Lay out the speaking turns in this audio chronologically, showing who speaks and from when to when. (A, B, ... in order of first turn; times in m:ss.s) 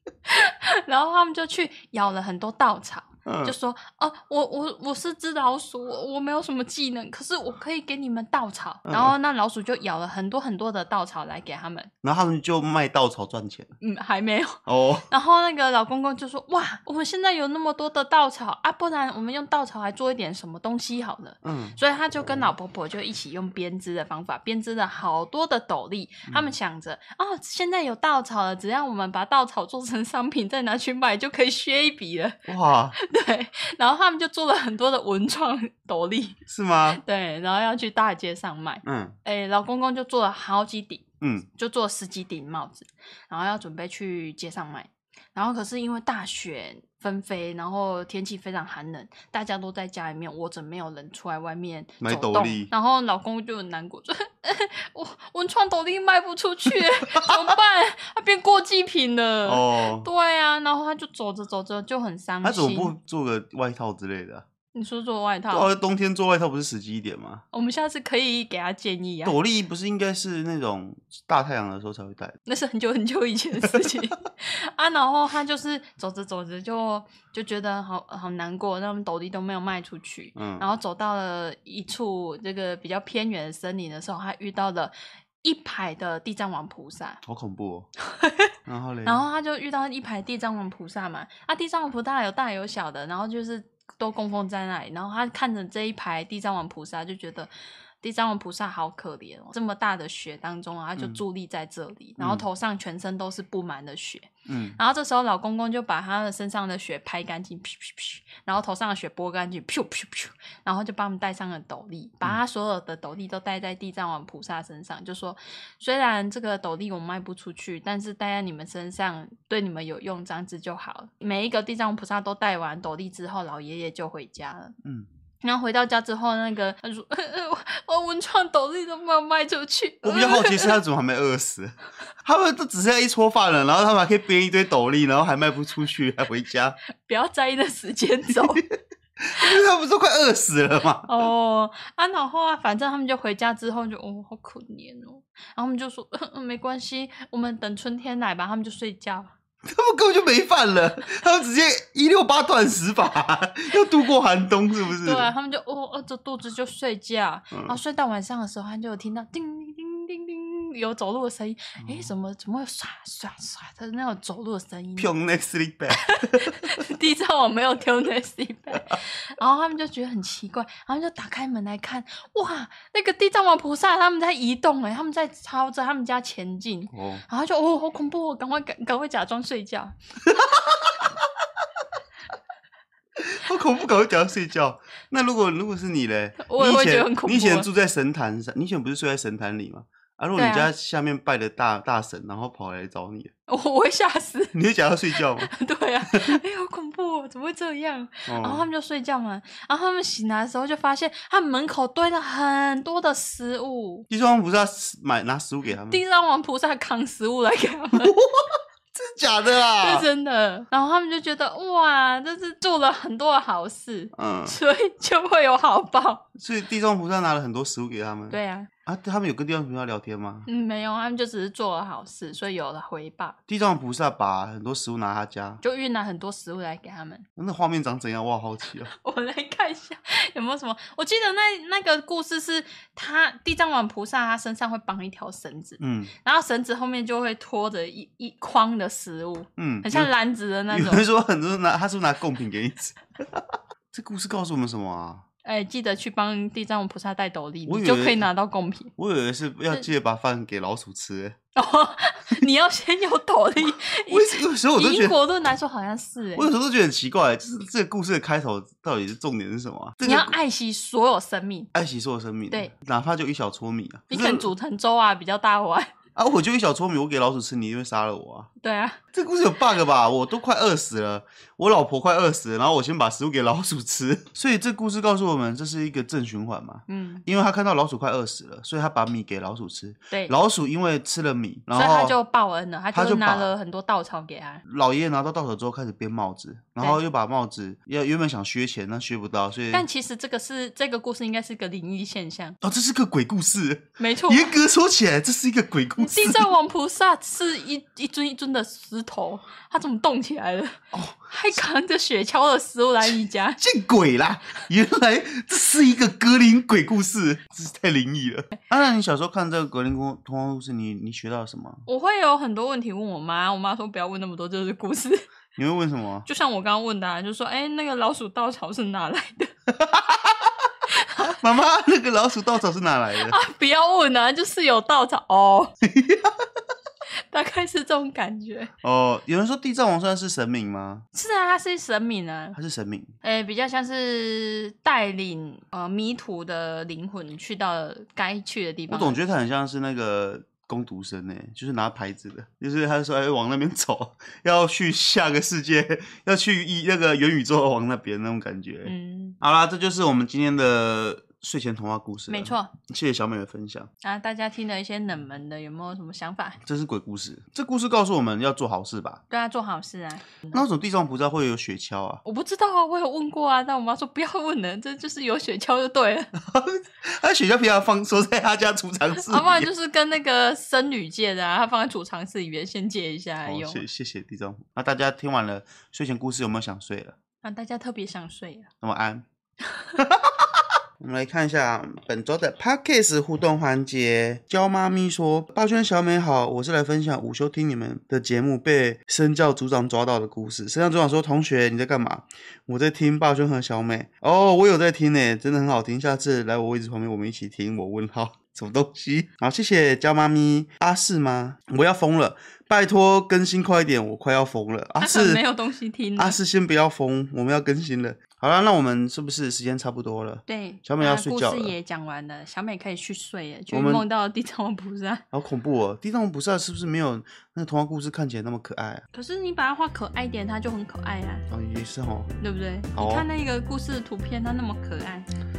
0:00.3-0:11.9 A
0:03.2-0:03.6 B
0:08.8-0:09.2 B
0:12.0-0:13.7 B
0:13.8-0:36.4 A
0:14.6-0:15.1 B
0:21.4-0:22.5 B
0:26.3-0:26.6 B
0:32.5-0:33.0 B
0:36.5-0:37.0 B
0:36.9-1:02.9 A
0:38.8-0:39.1 B
0:41.2-0:41.5 B
0:52.0-0:52.7 B
0:56.7-0:57.5 B
0:59.4-1:00.1 B
1:02.4-1:04.4 B
1:04.7-1:05.7 A
1:05.5-1:07.4 B
1:07.5-1:09.4 A
1:09.2-1:12.3 B
1:12.4-1:27.2 A
1:13.7-1:14.0 B
1:20.4-1:20.7 B
1:27.2-1:27.9 B
1:28.2-1:28.5 A
1:28.6-1:29.2 B
1:29.0-2:04.7 A
1:42.2-1:42.4 B
1:44.4-1:44.8 B
2:05.4-2:10.8 A
2:10.0-2:16.8 B
2:17.0-2:18.6 A
2:19.3-2:21.2 B
2:21.0-2:29.3 A
2:29.6-2:35.3 B
2:34.9-2:45.1 A
2:37.5-2:37.8 B
2:41.8-2:42.1 B
2:45.0-2:46.8 B
2:46.1-2:59.9 A
2:56.9-2:57.2 B
3:00.2-3:00.9 B
3:03.2-3:13.3 B
3:06.4-3:07.7 A
3:10.3-3:10.7 A
3:13.5-3:14.5 A
3:14.5-3:15.5 B
3:15.4-3:24.0 A
3:16.1-3:16.4 B
3:18.3-3:18.7 B
3:24.1-3:26.0 B
3:25.9-3:28.1 A
3:27.9-3:30.1 B
3:29.7-3:36.2 A
3:34.1-3:34.6 B
3:36.4-3:40.5 B
3:38.3-3:38.7 A
3:40.4-3:43.4 A
3:43.5-3:45.6 B
3:45.6-3:47.2 A
3:47.4-3:48.9 B
3:48.9-4:01.1 A
3:55.8-3:56.1 B
3:59.6-4:00.1 B
4:00.7-4:05.2 B
4:05.4-4:08.9 A
4:07.6-4:08.3 B
4:09.0-4:11.4 B
4:11.5-4:16.5 A
4:14.1-4:15.2 B
4:16.4-4:20.3 B
4:20.0-4:21.7 A
4:21.7-4:24.5 B
4:24.1-4:25.9 A
4:26.2-4:28.5 B
4:28.6-4:29.0 A
4:29.1-4:42.2 B
4:36.9-4:37.2 A
4:41.7-4:44.6 A
4:42.9-4:43.5 B
4:44.6-4:49.9 B
4:49.7-4:52.6 A
4:52.6-4:56.5 B
4:54.0-4:54.5 A
4:56.0-5:00.8 A
5:00.9-5:01.6 B
5:01.3-5:03.6 A
5:03.0-5:11.8 B
5:11.8-5:15.2 A
5:15.6-5:16.3 B
5:16.2-5:19.5 A
5:19.7-5:20.5 B
5:21.0-5:21.4 A
5:21.3-5:23.4 B
5:23.2-5:25.7 A
5:25.8-5:26.4 B
5:27.3-5:28.7 A
5:28.8-5:31.0 B
5:31.1-5:32.6 A
5:32.5-5:33.1 B
5:33.2-5:39.2 A
5:38.9-5:53.9 B
5:48.8-5:49.4 A
5:52.3-5:52.7 A
5:54.0-5:56.6 A
5:56.6-5:59.2 B
5:59.3-6:00.6 A
6:00.5-6:02.2 B
6:02.2-6:06.3 A
6:06.4-6:09.7 B
6:09.2-6:13.8 A
6:13.4-6:17.2 B
6:17.4-6:18.7 A
6:18.8-6:19.2 B
6:20.0-6:20.5 B
6:21.0-6:45.4 B
6:45.0-6:46.4 A
6:46.2-6:51.7 B
6:50.5-6:55.2 A
6:53.7-6:54.0 B
6:55.3-6:59.0 B
6:59.1-7:01.4 A
7:01.5-7:02.3 B
7:02.4-7:05.3 A
7:02.9-7:03.3 B